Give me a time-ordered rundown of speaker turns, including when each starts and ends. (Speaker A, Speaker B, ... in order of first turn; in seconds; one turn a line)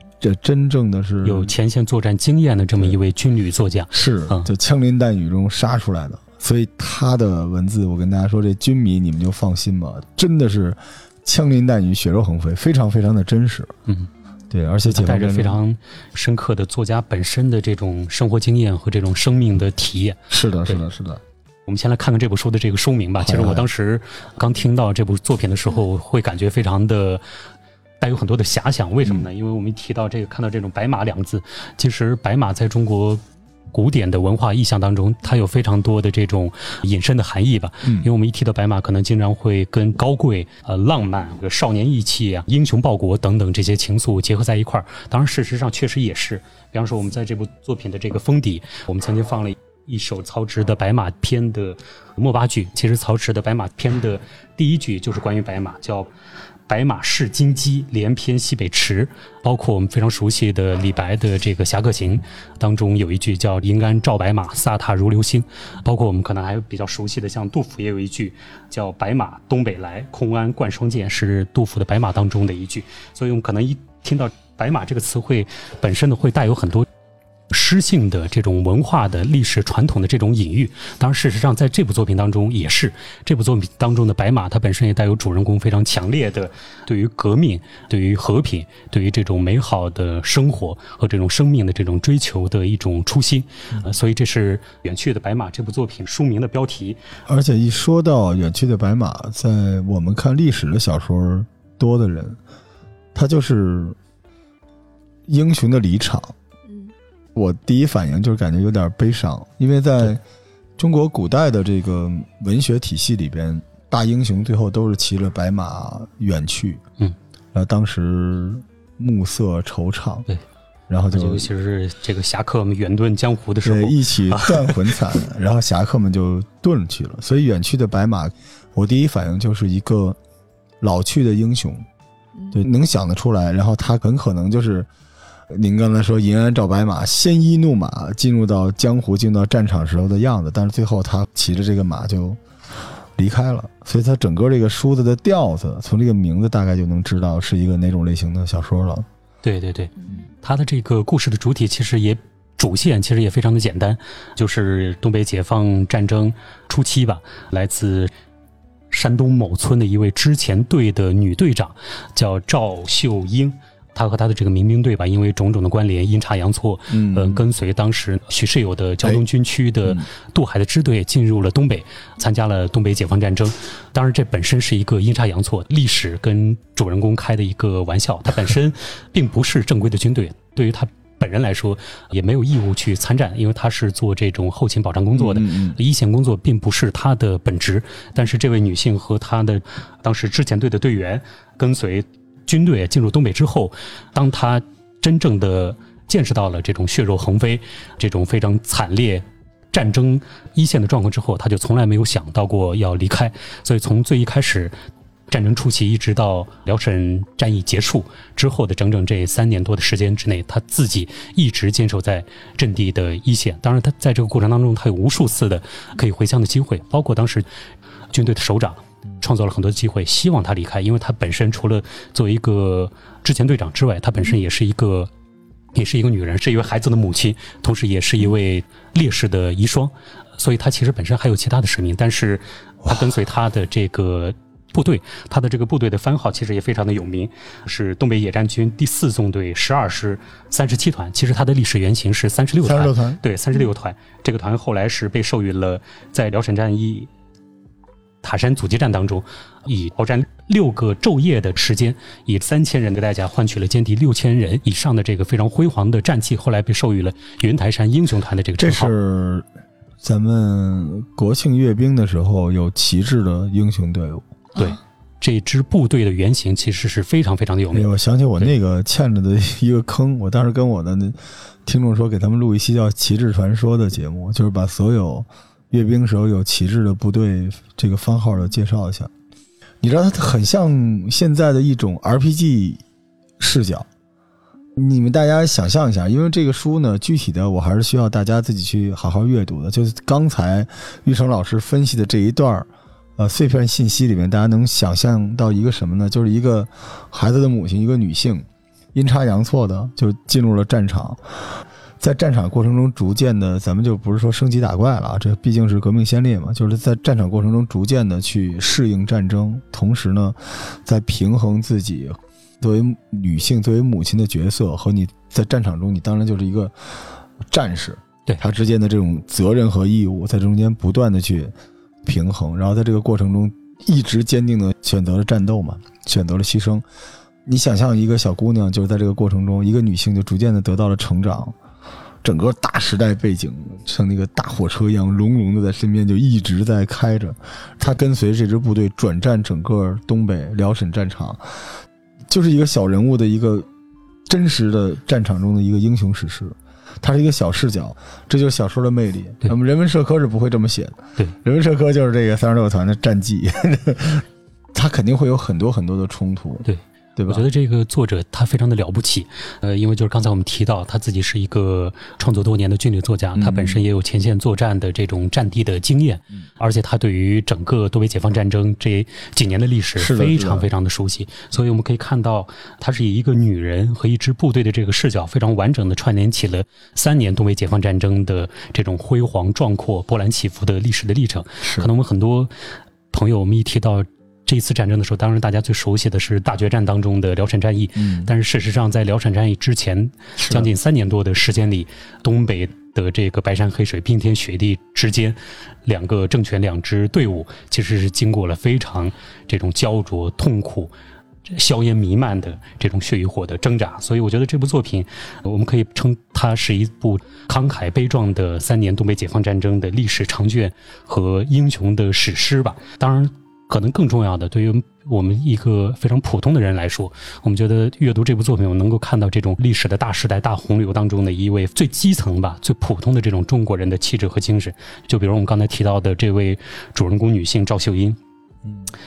Speaker A: 0.2-1.5
Speaker B: 1.2-4.5
Speaker A: 3.9-13.7
Speaker A: 14.5-15.6
Speaker B: 14.9-20.9
Speaker A: 20.3-21.2
Speaker B: 21.7-27.2
Speaker A: 23.2-23.7
Speaker B: 28.0-33.2
Speaker B: 33.7-56.1
Speaker B: 56.7-76.9
Speaker B: 77.5-97.0
Speaker A: 97.3-102.4
Speaker A: 103.1-104.0
Speaker A: 105.3-106.3
Speaker A: 107.3-110.2
Speaker A: 110.8-116.8
Speaker A: 117.5-120.3
Speaker A: 120.9-121.5
Speaker B: 121.1-125.0
Speaker A: 123.6-130.2
Speaker A: 130.8-131.8
Speaker A: 132.5-134.9
Speaker A: 135.5-142.4
Speaker A: 143.2-149.1
Speaker B: 149.4-158.1
Speaker B: 158.9-204.8
Speaker A: 166.9-167.4
Speaker A: 185.2-185.8
Speaker B: 205.3-217.5
Speaker B: 218.1-225.1
Speaker B: 225.8-247.1
Speaker A: 242.6-243.2
Speaker B: 248.2-258.9
Speaker A: 258.6-259.5
Speaker A: 260.0-264.2
Speaker B: 264.6-268.5
Speaker A: 267.7-279.1
Speaker A: 279.8-282.8
Speaker A: 283.4-283.9
Speaker A: 284.8-321.5
Speaker A: 322.1-326.8
Speaker A: 327.4-331.6
Speaker A: 332.2-343.7
Speaker A: 344.3-356.6
Speaker B: 356.6-382.5
Speaker A: 357.2-357.5
Speaker A: 363.4-363.8
Speaker A: 370.0-370.7
Speaker A: 381.6-381.9
Speaker B: 383.1-400.9
Speaker A: 388.0-388.3
Speaker A: 390.4-390.7
Speaker B: 401.5-428.2